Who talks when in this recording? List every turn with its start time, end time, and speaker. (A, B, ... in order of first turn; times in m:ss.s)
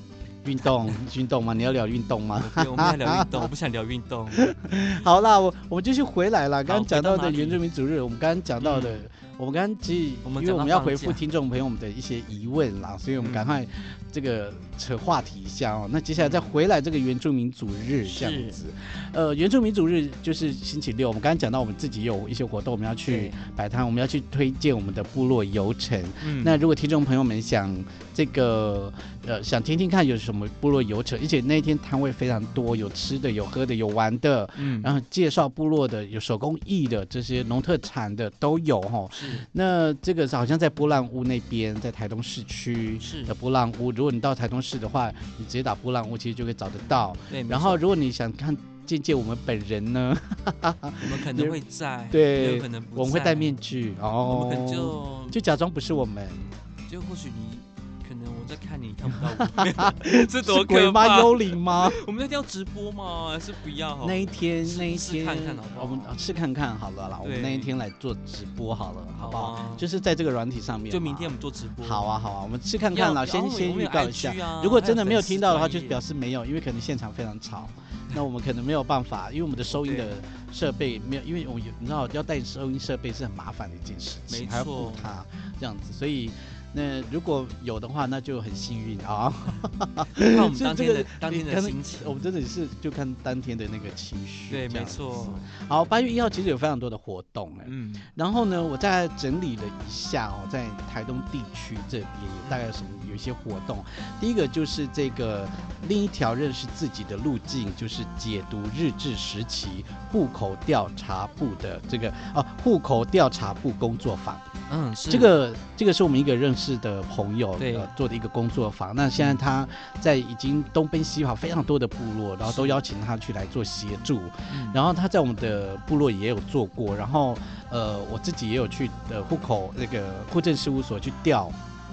0:00.4-0:03.5 A
0:02.4-0:04.5 B
0:04.4-0:51.6 A
0:06.7-0:07.6 B
0:08.6-0:09.0 B
0:10.2-0:11.2 B
0:13.2-0:13.5 B
0:16.2-0:16.5 B
0:18.0-0:18.6 B
0:23.1-0:23.4 B
0:26.2-0:26.6 B
0:34.6-0:34.9 B
0:39.1-0:39.5 B
0:43.0-0:43.4 B
0:47.3-0:47.8 B
0:51.0-0:53.6 B
0:52.1-0:56.5 A
0:54.2-0:55.4 B
0:56.9-1:06.2 B
0:59.1-1:02.0 A
1:04.0-1:54.5 A
1:07.2-1:07.7 B
1:09.2-1:09.8 B
1:10.9-1:12.1 B
1:12.9-1:16.0 B
1:19.7-1:20.1 B
1:24.3-1:25.2 B
1:30.2-1:32.2 B
1:34.5-1:35.5 B
1:37.6-1:38.1 B
1:54.7-1:55.3 B
1:55.1-2:11.6 A
1:57.6-1:57.9 B
2:02.4-2:02.8 B
2:04.5-2:04.8 B